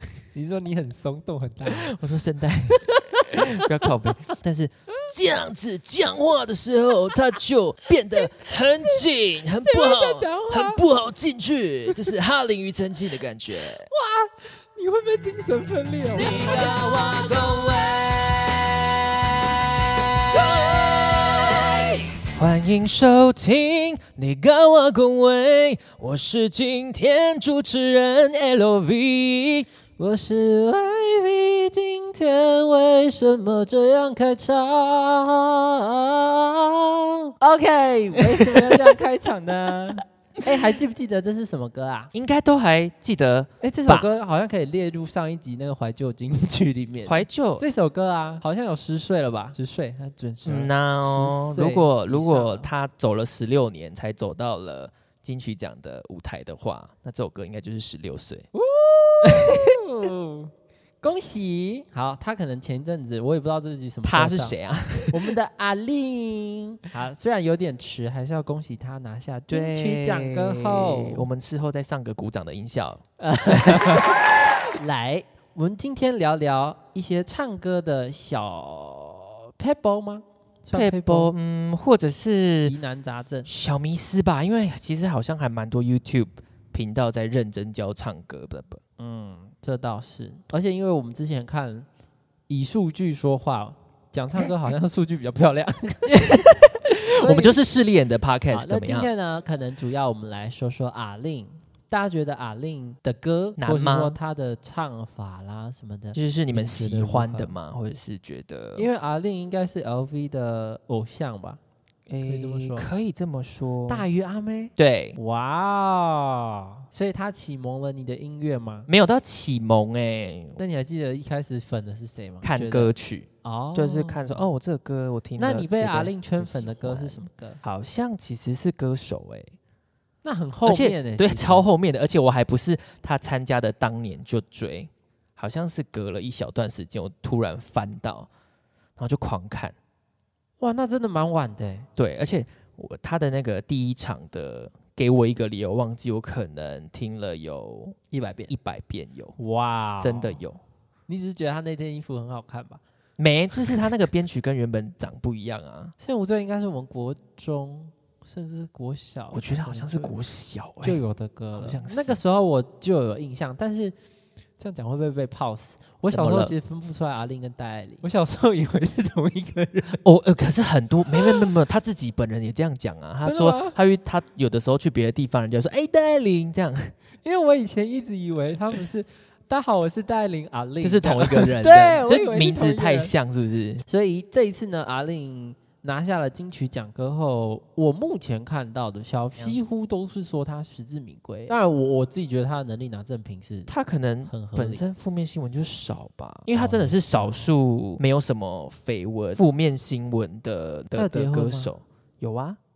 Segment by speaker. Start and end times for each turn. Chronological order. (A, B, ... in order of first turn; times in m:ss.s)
0:00.3-0:01.9 A
0:01.7-0:13.9 B
0:02.8-0:03.2 A
0:09.6-0:10.8 A
0:13.8-0:17.6 A
0:16.1-0:21.7 B
0:20.3-0:22.0 A
0:22.2-0:29.7 B
0:30.0-0:42.1 A
0:42.1-0:44.1 B
0:43.6-0:52.7 A
0:47.1-0:47.7 B
0:50.4-0:58.5 B
0:58.5-1:04.6 A
0:59.2-0:59.7 B
1:04.0-1:05.3 B
1:05.1-1:11.3 A
1:09.5-1:14.2 B
1:13.2-1:21.3 A
1:20.7-1:22.8 B
1:22.6-1:23.5 A
1:23.5-1:28.8 B
1:29.0-1:31.9 A
1:32.5-1:36.5 A
1:36.1-1:39.1 B
1:37.2-1:37.6 A
1:38.5-1:47.6 A
1:43.6-1:44.2 B
1:46.2-1:48.9 B
1:48.8-1:51.6 A
1:52.1-1:54.1 B
1:52.3-1:52.9 A
1:53.9-1:58.9 A
1:54.8-1:55.2 B
1:58.9-2:00.6 B
2:00.6-2:04.5 A
2:02.4-2:09.6 B
2:05.4-2:07.6 A
2:10.2-2:11.6 A
2:10.7-2:18.3 B
2:19.0-2:19.8 B
2:20.6-2:21.9 A
2:22.0-2:28.0 B
2:28.1-2:28.5 A
2:28.5-2:29.4 B
2:29.4-2:30.4 A
2:30.0-2:30.6 B
2:31.1-2:32.8 A
2:33.2-2:36.0 B
2:36.0-2:40.1 A
2:39.3-2:41.0 B
2:40.8-2:44.0 A
2:41.6-2:42.2 B
2:44.6-2:50.0 A
2:46.1-2:46.5 B
2:49.9-2:57.0 B
2:51.1-2:51.4 A
2:53.2-2:53.8 A
2:57.2-3:03.1 A
3:00.8-3:03.8 B
3:03.9-3:13.7 A
3:13.7-3:22.6 B
3:14.3-3:14.8 A
3:16.6-3:17.5 A
3:20.9-3:21.7 A